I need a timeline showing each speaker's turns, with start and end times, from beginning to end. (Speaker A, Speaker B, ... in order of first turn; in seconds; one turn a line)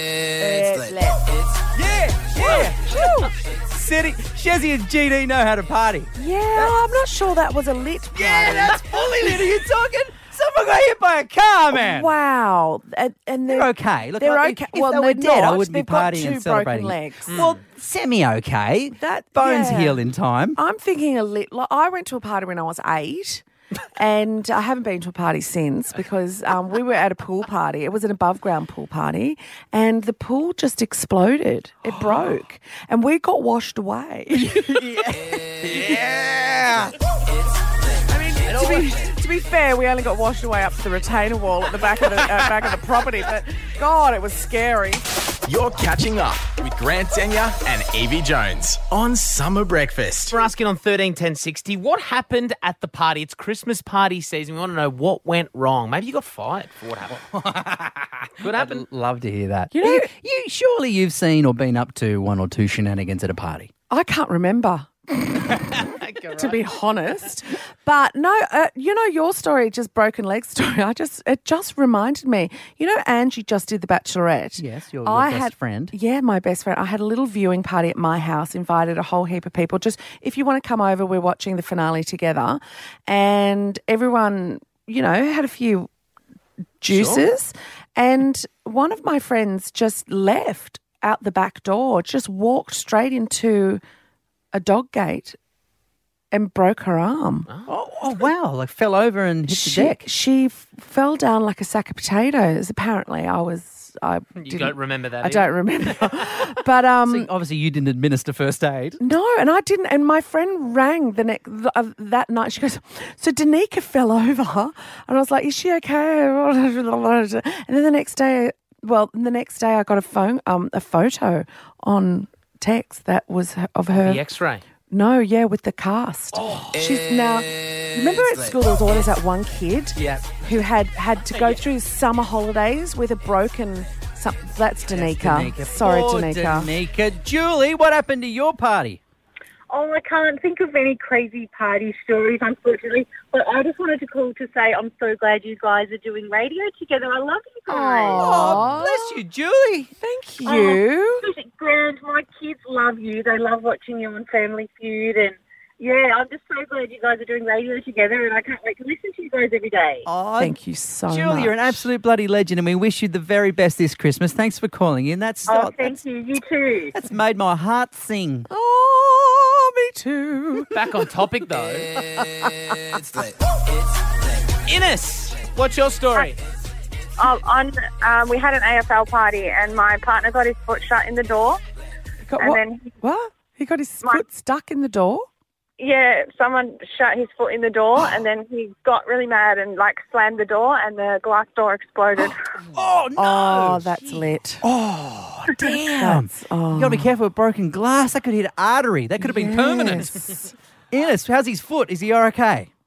Speaker A: 0.3-1.3
Speaker B: 1.7-6.8
Speaker A: 2.4-3.3
Speaker A: 6.2-9.4
Speaker B: 8.1-12.1
Speaker A: 11.7-17.4
Speaker B: 13.5-20.6
Speaker C: 17.3-17.6
Speaker A: 19.0-20.0
Speaker A: 20.6-23.4
Speaker A: 24.0-35.0
Speaker B: 31.9-32.2
Speaker B: 34.3-37.0
Speaker A: 38.1-45.0
Speaker B: 38.5-38.9
Speaker D: 45.5-50.4
Speaker C: 50.3-57.2
Speaker B: 57.3-63.7
Speaker C: 58.4-58.9
Speaker A: 59.7-60.1
Speaker A: 63.9-65.8
Speaker C: 65.8-66.7
Speaker A: 66.3-85.9
Speaker B: 74.6-76.0
Speaker A: 86.8-93.8
Speaker C: 86.9-87.2
Speaker A: 94.5-95.4
Speaker A: 96.3-97.5
Speaker B: 97.7-100.0
Speaker A: 99.5-107.3
Speaker C: 104.4-106.0
Speaker B: 107.0-109.0
Speaker A: 109.0-124.2
Speaker C: 124.0-124.6
Speaker A: 124.9-136.7
Speaker B: 126.3-126.7
Speaker B: 129.9-130.3
Speaker C: 131.3-131.6
Speaker B: 134.9-139.0
Speaker E: 139.7-148.4
Speaker A: 147.7-149.2
Speaker B: 148.2-149.9
Speaker C: 148.5-148.7
Speaker A: 150.0-151.2
Speaker E: 150.4-160.1
Speaker B: 160.1-160.6
Speaker A: 160.4-161.8
Speaker B: 161.1-166.0
Speaker E: 165.5-166.9
Speaker B: 166.9-168.5
Speaker A: 168.5-170.7
Speaker C: 170.7-171.9
Speaker A: 172.2-173.2
Speaker C: 174.7-176.4
Speaker E: 177.2-181.6
Speaker A: 182.3-185.3
Speaker E: 182.4-182.9
Speaker E: 185.8-192.4
Speaker B: 192.7-200.2
Speaker A: 193.2-194.6
Speaker A: 195.6-197.1
Speaker A: 199.2-200.5
Speaker B: 200.9-202.7